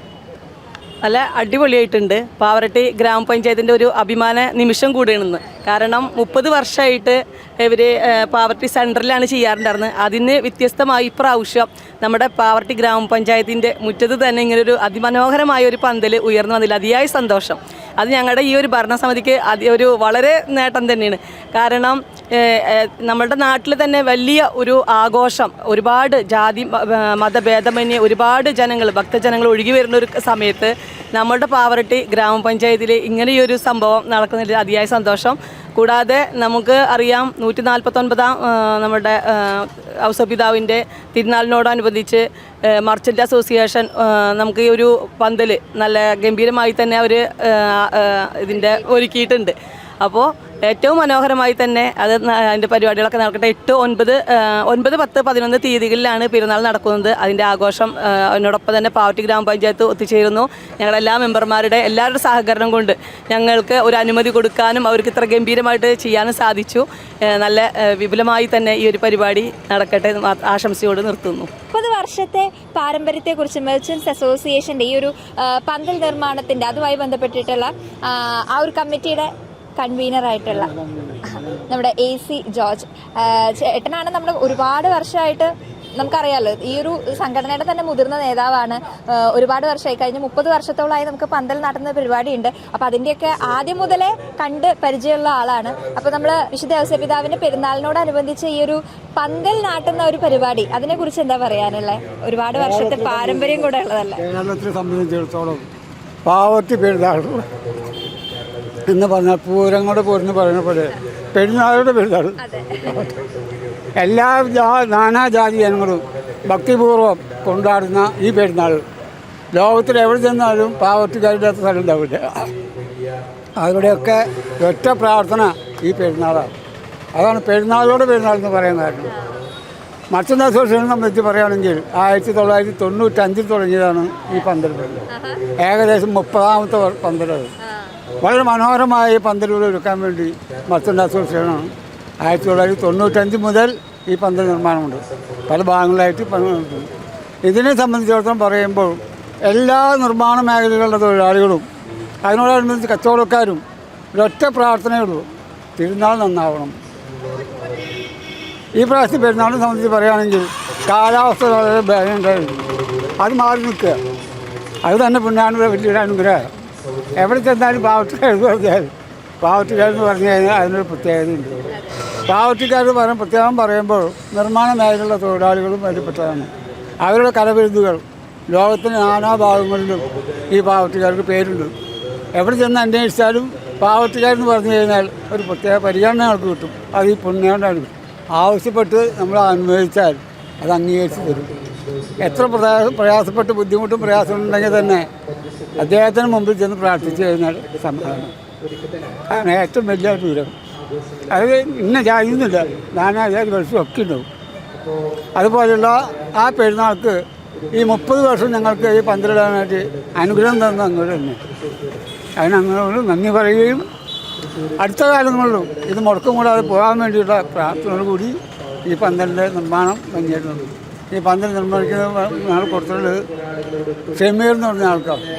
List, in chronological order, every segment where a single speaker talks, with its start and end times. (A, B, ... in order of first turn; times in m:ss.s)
0:01.0-1:11.5 A
1:11.7-1:20.7 B
1:21.7-1:44.2 B
1:42.5-1:43.6 C
1:44.2-1:45.6 C
1:46.2-1:47.4 C
1:48.9-1:53.1 C
1:52.4-1:52.8 B
1:54.0-1:58.8 C
1:59.5-2:02.5 C
2:03.6-2:06.5 C
2:07.1-2:09.1 C
2:09.0-2:09.3 B
2:10.1-2:15.0 C
2:15.1-2:15.4 B
2:15.6-2:17.5 C
2:18.2-2:26.9 C
2:27.4-2:31.6 C
2:32.2-2:33.6 C
2:34.1-2:35.2 C
2:35.8-2:36.8 C
2:38.8-2:42.6 C
2:43.2-2:44.0 C
2:44.8-2:46.4 C
2:47.1-2:48.9 C
2:49.4-2:51.6 C
2:52.3-2:56.5 C
2:57.0-3:01.7 C
3:02.4-3:11.5 C
3:12.2-3:15.1 C
3:15.8-3:18.3 C
3:19.3-3:20.5 C
3:21.3-3:24.2 C
3:25.4-3:27.2 C
3:27.7-3:31.4 C
3:32.4-3:33.8 C
3:34.8-3:38.3 C
3:38.8-3:43.2 C
3:44.1-3:45.2 C